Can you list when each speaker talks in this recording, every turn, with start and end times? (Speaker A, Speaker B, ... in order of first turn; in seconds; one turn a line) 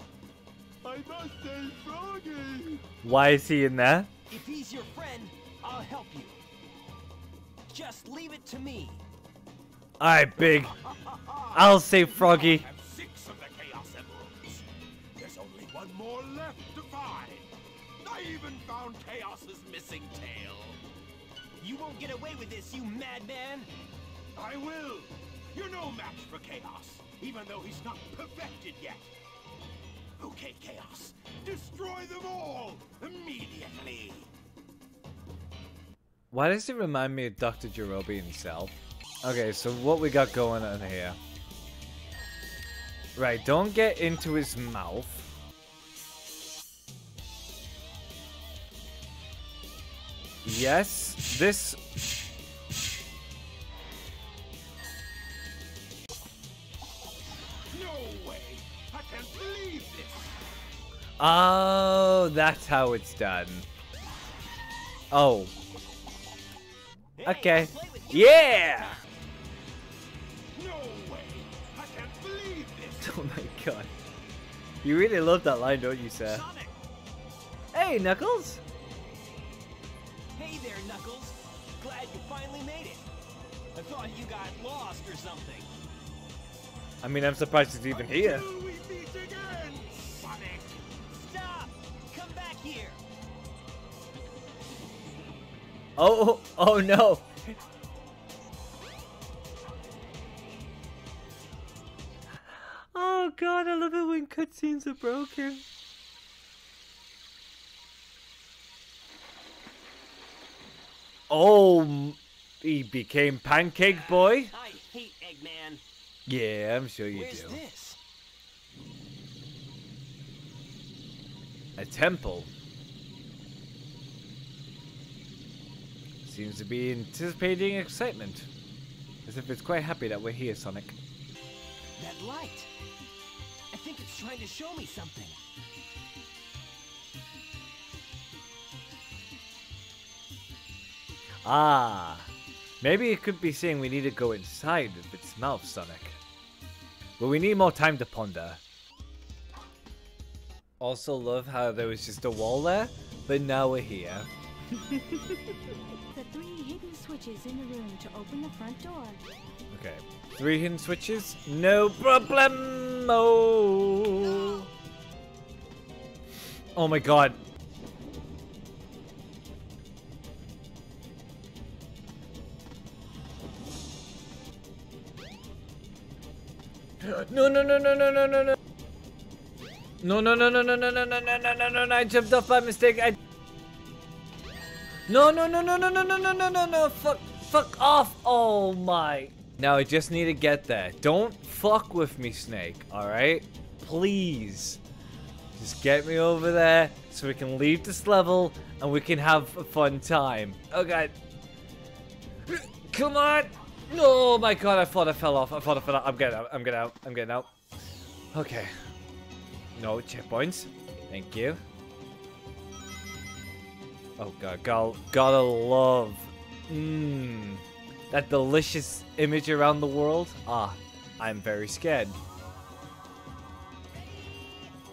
Speaker A: 0.8-2.8
Speaker B: 3.0-4.1
Speaker C: 4.3-6.4
Speaker C: 7.7-9.0
Speaker B: 10.0-10.7
Speaker A: 10.6-14.7
Speaker B: 11.5-12.7
Speaker A: 15.2-17.5
Speaker A: 18.0-20.8
Speaker C: 21.6-23.7
Speaker A: 24.4-29.1
Speaker A: 30.2-34.3
Speaker B: 36.3-41.2
Speaker B: 43.2-45.3
Speaker B: 50.5-51.8
Speaker A: 57.7-60.4
Speaker B: 61.2-63.7
Speaker B: 65.1-65.5
Speaker C: 67.2-69.0
Speaker B: 67.2-69.0
Speaker A: 70.5-73.2
Speaker B: 73.0-73.9
Speaker B: 74.8-76.5
Speaker C: 76.2-76.8
Speaker B: 77.7-78.6
Speaker C: 80.3-83.0
Speaker C: 83.7-85.7
Speaker B: 87.0-88.5
Speaker A: 87.9-90.8
Speaker C: 91.1-93.0
Speaker B: 96.0-97.3
Speaker B: 102.9-105.6
Speaker B: 111.3-114.5
Speaker C: 113.8-115.8
Speaker B: 116.3-117.6
Speaker C: 117.1-118.0
Speaker B: 121.8-122.5
Speaker B: 126.2-128.5
Speaker B: 129.3-131.0
Speaker C: 132.0-132.7
Speaker C: 133.7-135.4
Speaker B: 141.4-142.3
Speaker B: 142.8-146.2
Speaker B: 147.2-148.6
Speaker B: 150.8-155.5
Speaker D: 156.1-159.2
Speaker B: 159.7-164.7
Speaker B: 166.8-167.4
Speaker B: 177.0-178.6
Speaker B: 180.0-183.2
Speaker B: 185.1-194.8
Speaker B: 195.6-201.1
Speaker B: 202.5-207.5
Speaker B: 208.3-208.7
Speaker B: 209.8-211.6
Speaker B: 214.2-222.2